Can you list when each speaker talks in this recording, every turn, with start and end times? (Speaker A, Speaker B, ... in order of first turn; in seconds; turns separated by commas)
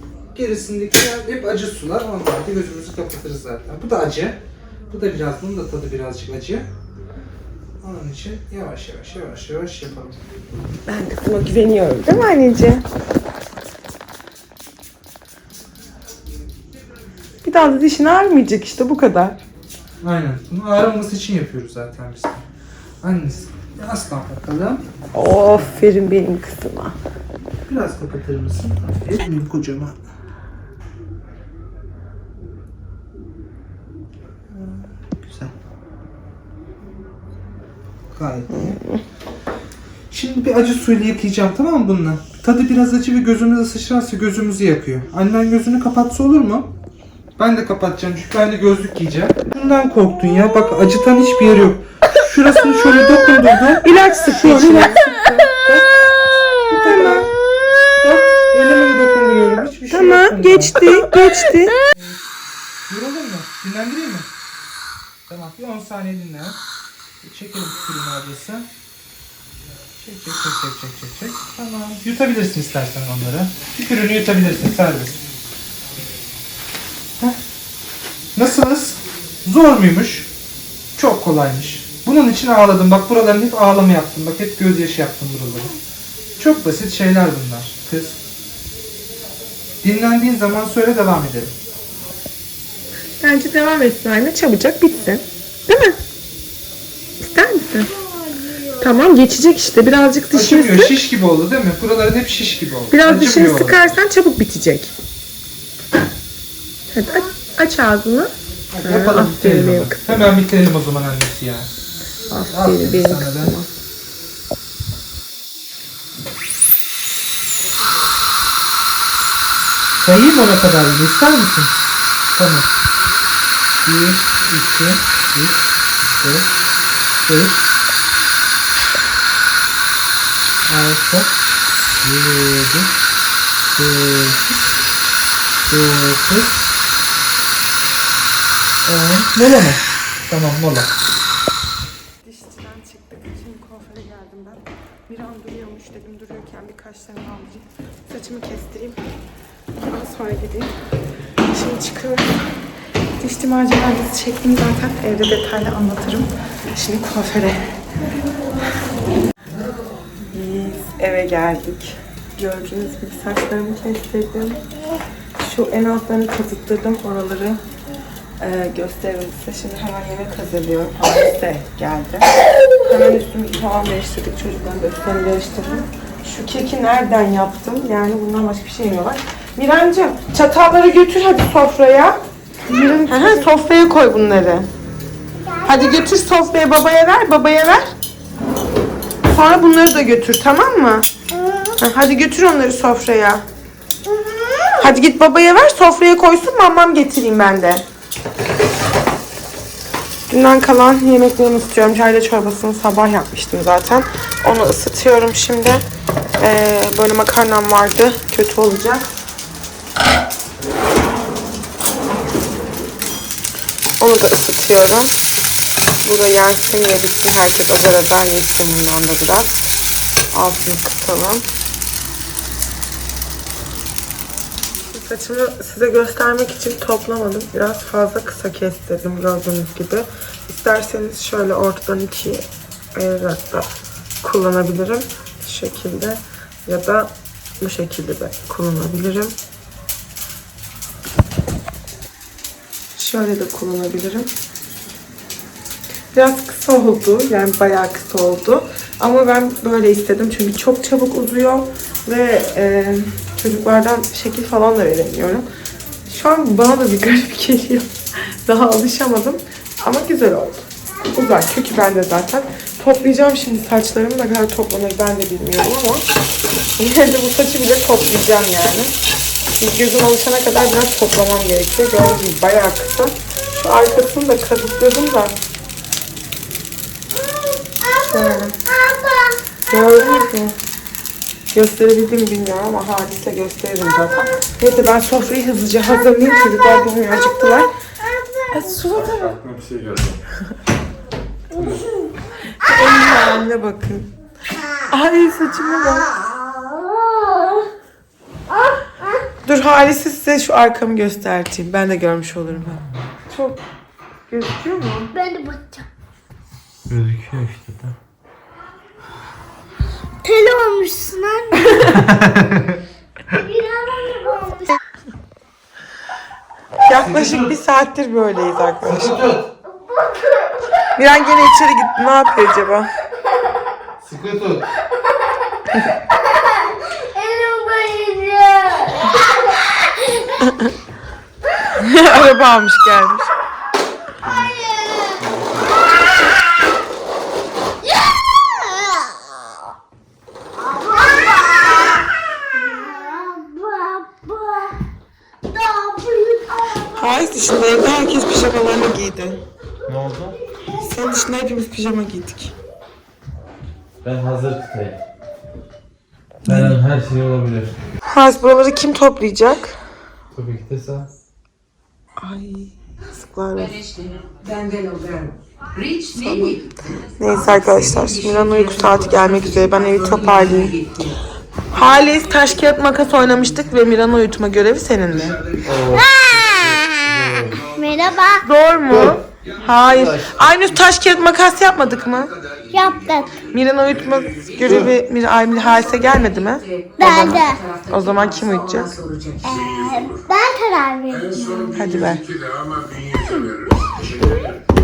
Speaker A: 0.3-6.7, Speaker A: 7.8-10.2, Speaker B: 10.9-12.8, Speaker B: 17.4-19.4, Speaker A: 20.0-22.4, Speaker A: 23.0-24.9, Speaker B: 25.1-27.0, Speaker A: 27.7-30.1, Speaker A: 34.5-35.5, Speaker A: 38.1-38.8, Speaker B: 38.5-39.0, Speaker A: 40.1-46.7, Speaker A: 47.4-56.1, Speaker B: 53.8-55.0, Speaker A: 56.7-57.3, Speaker B: 56.8-57.2, Speaker A: 57.9-60.8, Speaker B: 59.9-61.8, Speaker A: 62.9-64.3, Speaker A: 65.3-66.6, Speaker A: 67.2-68.7, Speaker A: 70.0-75.2, Speaker A: 78.3-80.3, Speaker A: 80.9-85.7, Speaker A: 86.4-88.2, Speaker A: 89.8-91.5, Speaker B: 93.2-96.0, Speaker B: 97.2-97.9, Speaker C: 97.9-98.8, Speaker B: 98.8-101.0, Speaker A: 100.3-104.0, Speaker B: 102.9-104.9, Speaker B: 106.9-110.2, Speaker A: 108.7-111.7, Speaker B: 112.3-113.7, Speaker A: 112.5-113.6, Speaker A: 120.0-121.8, Speaker A: 122.3-122.7, Speaker A: 123.8-126.5, Speaker A: 127.2-127.7, Speaker A: 130.6-131.3, Speaker A: 132.0-132.9, Speaker A: 133.7-134.6, Speaker A: 135.7-136.7, Speaker A: 138.8-140.9, Speaker B: 142.2-149.0, Speaker B: 149.9-150.7, Speaker B: 151.5-152.4, Speaker B: 153.2-157.8, Speaker B: 160.3-164.6, Speaker B: 165.4-167.6, Speaker B: 168.4-184.7, Speaker C: 182.7-183.3, Speaker C: 185.4-186.0, Speaker B: 185.6-187.9, Speaker B: 189.2-191.1, Speaker C: 191.3-191.8, Speaker B: 191.8-193.4, Speaker C: 194.0-194.9, Speaker B: 194.8-197.8, Speaker B: 200.3-205.8, Speaker B: 206.4-209.1, Speaker B: 214.0-215.1, Speaker B: 216.0-219.7, Speaker B: 220.3-221.4, Speaker B: 224.8-232.4, Speaker B: 232.9-233.7, Speaker B: 234.2-239.3, Speaker B: 242.9-244.3, Speaker B: 246.1-255.5, Speaker B: 256.1-266.0, Speaker B: 266.8-268.9, Speaker B: 269.6-275.4, Speaker C: 277.1-279.4, Speaker B: 278.0-278.5, Speaker B: 279.7-280.6, Speaker B: 281.5-287.7, Speaker C: 287.4-288.9, Speaker B: 288.5-289.4, Speaker D: 289.0-290.2, Speaker C: 291.5-292.1, Speaker D: 291.5-291.8, Speaker B: 292.5-294.1, Speaker B: 294.9-296.1, Speaker C: 296.1-297.7, Speaker C: 298.5-299.2, Speaker B: 299.4-303.6, Speaker B: 304.3-305.1, Speaker C: 305.1-305.9, Speaker D: 306.9-307.9, Speaker C: 310.2-311.9, Speaker D: 312.0-312.7, Speaker C: 313.3-314.8, Speaker B: 316.8-319.3, Speaker A: 317.1-317.4, Speaker D: 318.9-319.5, Speaker C: 319.7-320.5, Speaker B: 320.9-322.9, Speaker D: 324.0-324.6, Speaker C: 327.0-330.4, Speaker B: 330.4-330.7, Speaker B: 331.8-333.3, Speaker D: 334.2-334.5, Speaker C: 334.4-335.7, Speaker D: 335.2-335.7, Speaker C: 337.9-339.1, Speaker C: 340.6-344.8, Speaker C: 345.4-347.9, Speaker B: 346.9-349.4, Speaker D: 349.9-350.4, Speaker C: 350.6-351.1, Speaker B: 350.7-352.5, Speaker D: 354.0-355.0, Speaker D: 356.4-357.8, Speaker B: 358.1-359.8, Speaker D: 360.3-361.1, Speaker B: 362.2-363.8, Speaker E: 363.6-371.2, Speaker B: 366.2-366.6, Speaker B: 367.2-370.7, Speaker B: 371.7-375.5, Speaker E: 371.8-372.2, Speaker D: 375.2-377.7, Speaker C: 375.9-376.4, Speaker C: 377.7-378.4, Speaker B: 378.4-382.3, Speaker D: 378.9-379.2, Speaker D: 379.8-380.4, Speaker C: 382.7-383.5, Speaker B: 383.5-388.9, Speaker D: 384.6-384.9, Speaker E: 385.6-389.7, Speaker C: 387.0-387.6, Speaker C: 389.4-391.8, Speaker B: 391.7-392.3, Speaker C: 393.1-393.5